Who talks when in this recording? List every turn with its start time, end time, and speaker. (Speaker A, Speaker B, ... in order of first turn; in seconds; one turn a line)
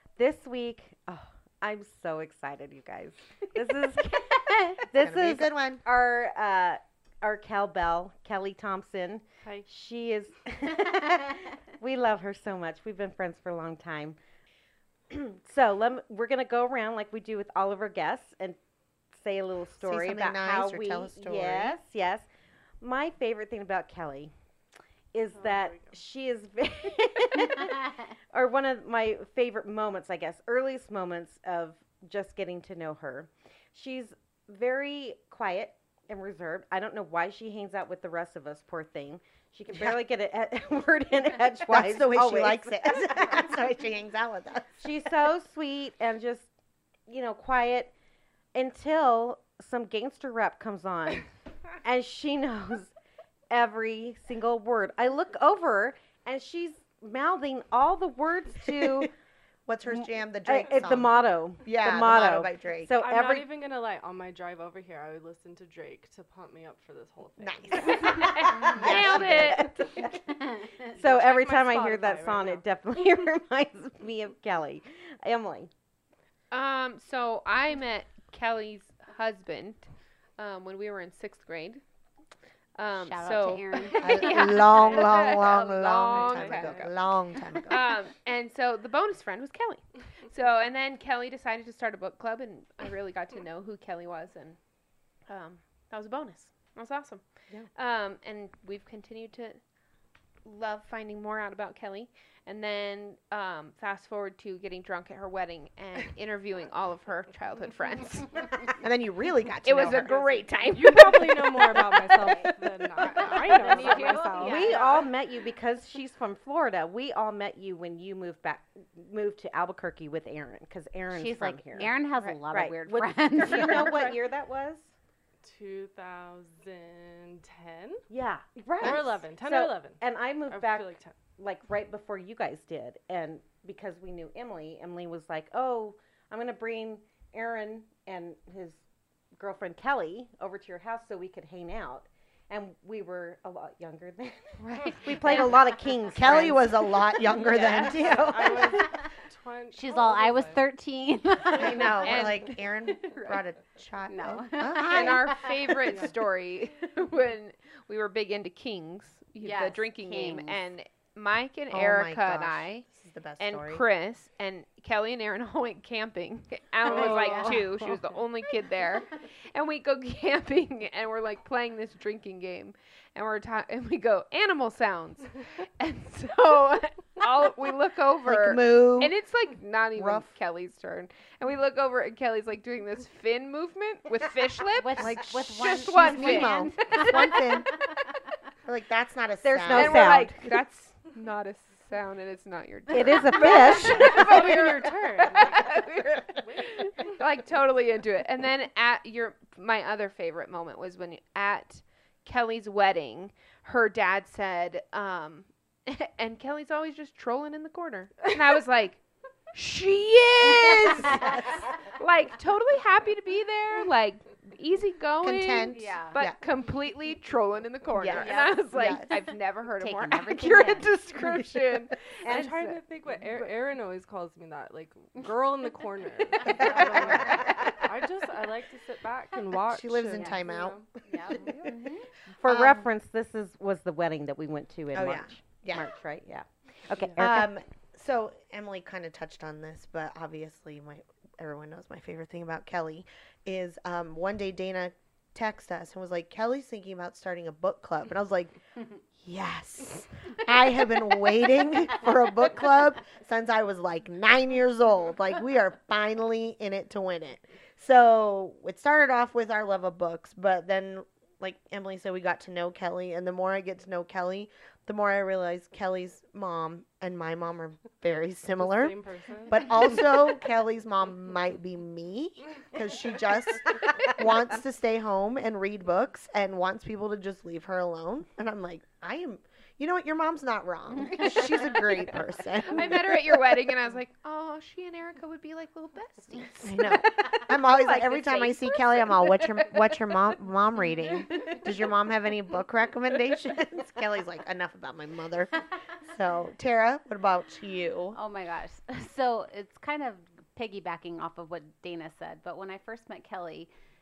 Speaker A: 0.2-14.2
Speaker B: 4.9-5.8
Speaker A: 15.1-18.6
Speaker A: 19.1-22.3
Speaker B: 19.8-21.8
Speaker A: 22.8-24.3
Speaker A: 25.1-43.5
Speaker C: 25.3-25.9
Speaker B: 39.7-40.0
Speaker B: 41.7-45.0
Speaker A: 44.8-46.5
Speaker A: 47.1-47.9
Speaker A: 48.5-51.3
Speaker A: 51.8-52.9
Speaker A: 53.5-59.1
Speaker B: 58.8-59.0
Speaker B: 59.7-63.0
Speaker A: 59.9-63.5
Speaker C: 63.0-68.4
Speaker B: 67.4-69.7
Speaker A: 68.0-70.2
Speaker D: 68.3-70.1
Speaker A: 70.8-75.7
Speaker C: 70.9-72.6
Speaker D: 76.5-79.9
Speaker D: 80.4-81.8
Speaker D: 82.7-87.0
Speaker E: 83.0-84.5
Speaker B: 84.0-87.9
Speaker C: 84.8-85.2
Speaker C: 86.1-86.9
Speaker D: 87.6-94.6
Speaker D: 95.3-99.7
Speaker D: 100.4-108.7
Speaker B: 108.8-110.5
Speaker D: 109.6-112.1
Speaker C: 110.7-114.7
Speaker E: 113.2-115.0
Speaker D: 113.6-115.1
Speaker A: 114.4-122.0
Speaker E: 121.1-124.1
Speaker A: 122.5-124.9
Speaker D: 123.7-124.1
Speaker C: 125.4-128.0
Speaker A: 128.1-138.8
Speaker C: 128.8-131.1
Speaker A: 139.4-146.7
Speaker D: 144.7-145.5
Speaker E: 145.0-145.6
Speaker B: 146.1-148.6
Speaker D: 147.3-148.1
Speaker A: 147.5-148.6
Speaker C: 148.0-150.6
Speaker E: 149.7-152.3
Speaker B: 151.5-155.5
Speaker D: 151.9-153.4
Speaker E: 154.1-155.7
Speaker D: 154.9-162.8
Speaker C: 155.8-156.1
Speaker E: 159.4-160.6
Speaker B: 161.7-163.8
Speaker D: 163.4-187.6
Speaker C: 166.8-168.1
Speaker E: 167.0-167.5
Speaker B: 178.2-179.1
Speaker B: 179.9-180.3
Speaker E: 184.8-187.4
Speaker B: 185.0-187.7
Speaker B: 188.6-190.2
Speaker A: 189.4-190.4
Speaker D: 189.7-209.0
Speaker A: 192.9-194.6
Speaker C: 193.6-197.2
Speaker D: 209.5-222.8
Speaker B: 215.2-216.4
Speaker E: 215.7-216.2
Speaker B: 218.0-219.1
Speaker E: 218.2-218.6
Speaker E: 219.8-220.9
Speaker A: 222.2-222.5
Speaker C: 222.3-230.8
Speaker A: 223.2-223.4
Speaker B: 226.4-227.5
Speaker B: 229.7-231.7
Speaker E: 231.1-232.0
Speaker A: 232.4-237.5
Speaker B: 232.4-232.8
Speaker B: 234.9-235.9
Speaker B: 237.2-248.5
Speaker B: 249.2-268.9
Speaker C: 268.6-269.7
Speaker B: 269.5-283.4
Speaker D: 282.7-289.7
Speaker B: 286.6-298.2
Speaker E: 298.1-303.7